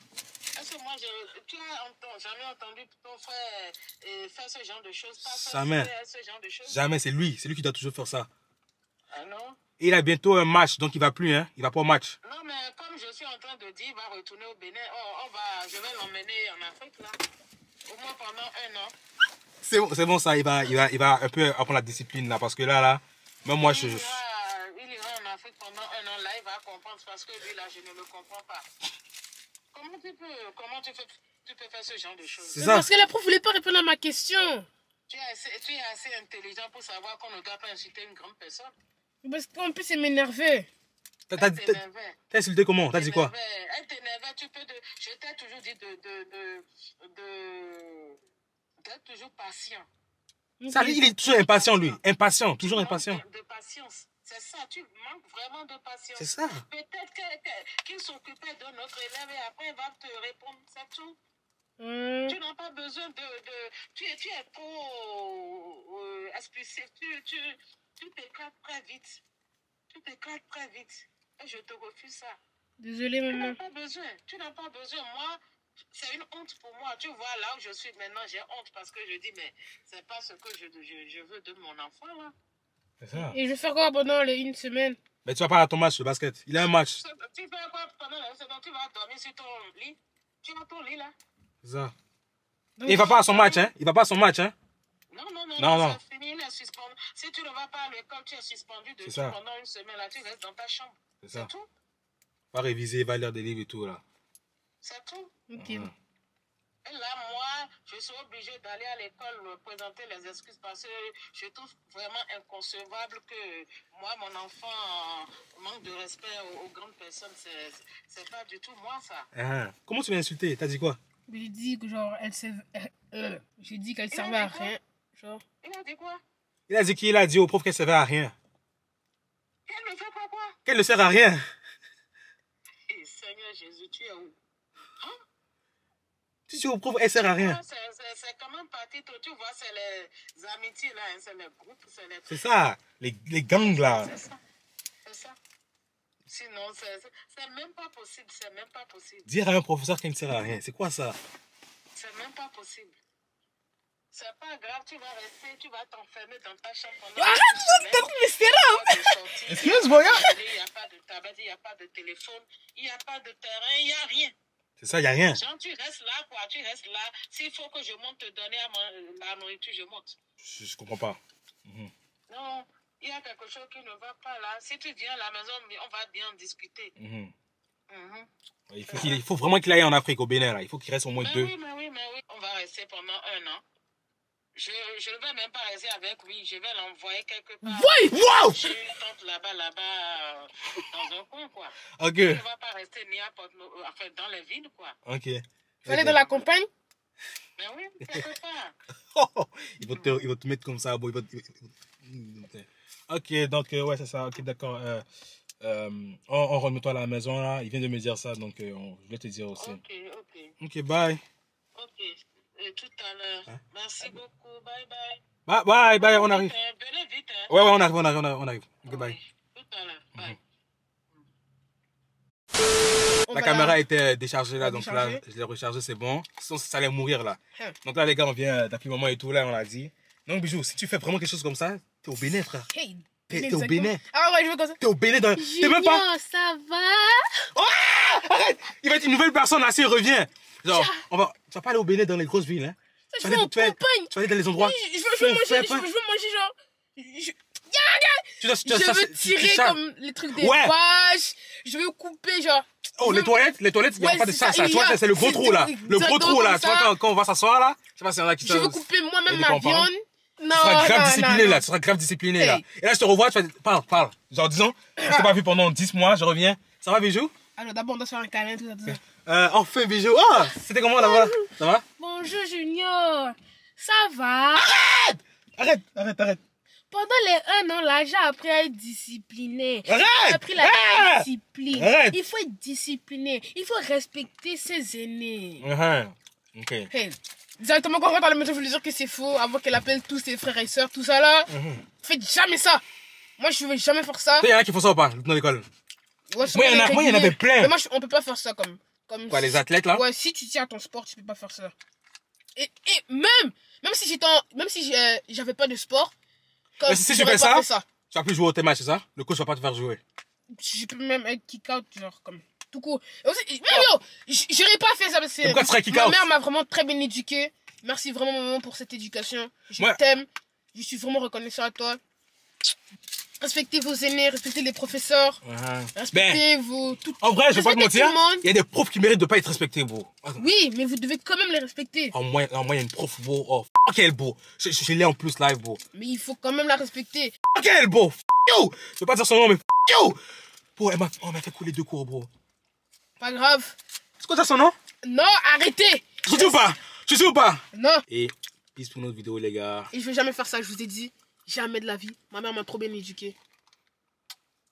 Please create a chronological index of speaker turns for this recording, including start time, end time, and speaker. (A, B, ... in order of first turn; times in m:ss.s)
0:00.6-0:06.8 A
0:05.2-0:05.9 B
0:06.6-0:08.3 B
0:09.1-0:09.6 A
0:09.8-0:12.1 B
0:12.2-0:17.2 A
0:17.9-0:18.9 A
0:19.6-0:24.2 B
0:23.6-0:28.6 A
0:29.7-0:32.6 A
0:32.5-0:32.9 B
0:32.6-0:34.7 C
0:35.1-0:38.7 A
0:39.2-0:40.7 C
0:41.3-0:41.8 B
0:41.4-0:42.2 A
0:42.3-0:43.3 B
0:42.9-0:48.2 A
0:48.8-0:49.9 A
0:50.6-0:51.1 C
0:50.7-0:53.2 B
0:51.2-0:52.0 A
0:52.6-1:01.2 A
0:56.2-0:56.6 B
1:01.8-1:02.4 C
1:02.3-1:09.2 A
1:09.9-1:12.4 A
1:12.8-1:13.6 C
1:13.3-1:15.4 A
1:15.9-1:22.3 A
1:23.0-1:23.4 B
1:23.2-1:25.0 C
1:25.2-1:27.0 B
1:27.0-1:31.1 A
1:31.6-1:31.9 B
1:32.8-1:33.5 C
1:32.8-1:34.5 B
1:35.1-1:41.7 A
1:35.6-1:36.0 B
1:39.0-1:39.3 B
1:41.2-1:41.5 B
1:42.5-1:44.0 B
1:44.8-1:45.4 A
1:45.5-1:45.9 C
1:45.6-1:45.9 B
1:46.8-1:59.3 A
1:59.3-2:01.0 B
2:01.3-2:05.4 C
2:04.1-2:04.8 A
2:05.6-2:06.2 A
2:06.7-2:08.3 B
2:09.7-2:10.6 A
2:10.6-2:11.4 B
2:12.9-2:14.4 A
2:16.5-2:17.6 B
2:17.1-2:22.4 A
2:22.3-2:24.1 B
2:23.5-2:24.4 A
2:25.0-2:25.4 A
2:26.2-2:29.3 A
2:29.2-2:31.2 B
2:31.9-2:33.0 A
2:34.1-2:44.3 A
2:37.2-2:39.2 C
2:39.5-2:40.3 B
2:44.8-2:45.4 B
2:45.3-2:50.2 A
2:50.4-2:51.9 B
2:52.3-2:56.9 A
2:57.0-2:57.3 B
2:57.9-2:58.3 A
2:58.7-3:01.5 B
2:58.9-2:59.2 A
3:01.2-3:03.6 A
3:04.6-3:14.9 A
3:07.6-3:08.2 C
3:08.1-3:08.6 B
3:12.0-3:12.4 B
3:15.0-3:16.2 B
3:15.8-3:16.7 C
3:17.6-3:18.7 A
3:19.1-3:25.0 B
3:19.8-3:20.2 A
3:25.6-3:29.8 B
3:29.6-3:30.5 A
3:30.6-3:31.2 B
3:31.7-3:35.2 A
3:35.4-3:36.5 B
3:36.0-3:37.5 A
3:37.5-3:39.2 B
3:38.9-3:40.4 A
3:43.2-3:43.8 C
3:43.3-3:52.7 B
3:44.6-3:45.2 C
3:52.7-3:54.8 C
3:53.3-3:54.0 B
3:54.8-3:56.0 B
3:55.4-3:57.4 C
3:57.5-4:05.9 B
4:00.7-4:01.0 C
4:03.1-4:13.3 C
4:08.4-4:09.8 B
4:10.3-4:10.7 B
4:13.0-4:19.9 B
4:14.0-4:16.9 C
4:18.4-4:21.6 C
4:20.5-4:27.3 B
4:22.4-4:22.6 C
4:25.0-4:25.3 C
4:27.6-4:29.0 C
4:28.9-4:31.8 B
4:31.0-4:34.7 C
4:34.6-4:36.4 B
4:36.9-4:45.6 C
4:39.8-4:42.2 B
4:45.6-4:46.9 B
4:46.9-4:52.8 C
4:51.5-4:51.8 B
4:53.4-4:54.5 C
4:54.4-4:55.7 B
4:56.3-5:01.7 C
4:56.4-4:57.7 B
4:59.3-5:00.0 B
5:02.6-5:06.1 C
5:06.8-5:07.8 C
5:06.8-5:10.0 B
5:10.5-5:22.0 C
5:15.4-5:16.2 B
5:23.4-5:25.4 C
5:25.4-5:26.4 B
5:25.9-5:28.4 C
5:27.2-5:30.4 B
5:30.4-5:32.1 C
5:32.1-5:35.8 B
5:35.9-5:37.3 C
5:37.5-5:40.2 B
5:40.8-5:42.3 B
5:43.2-5:43.8 C
5:44.2-5:44.7 B
5:45.0-5:46.6 C
5:46.2-5:49.9 B
5:47.7-5:48.0 C
5:49.9-5:53.4 C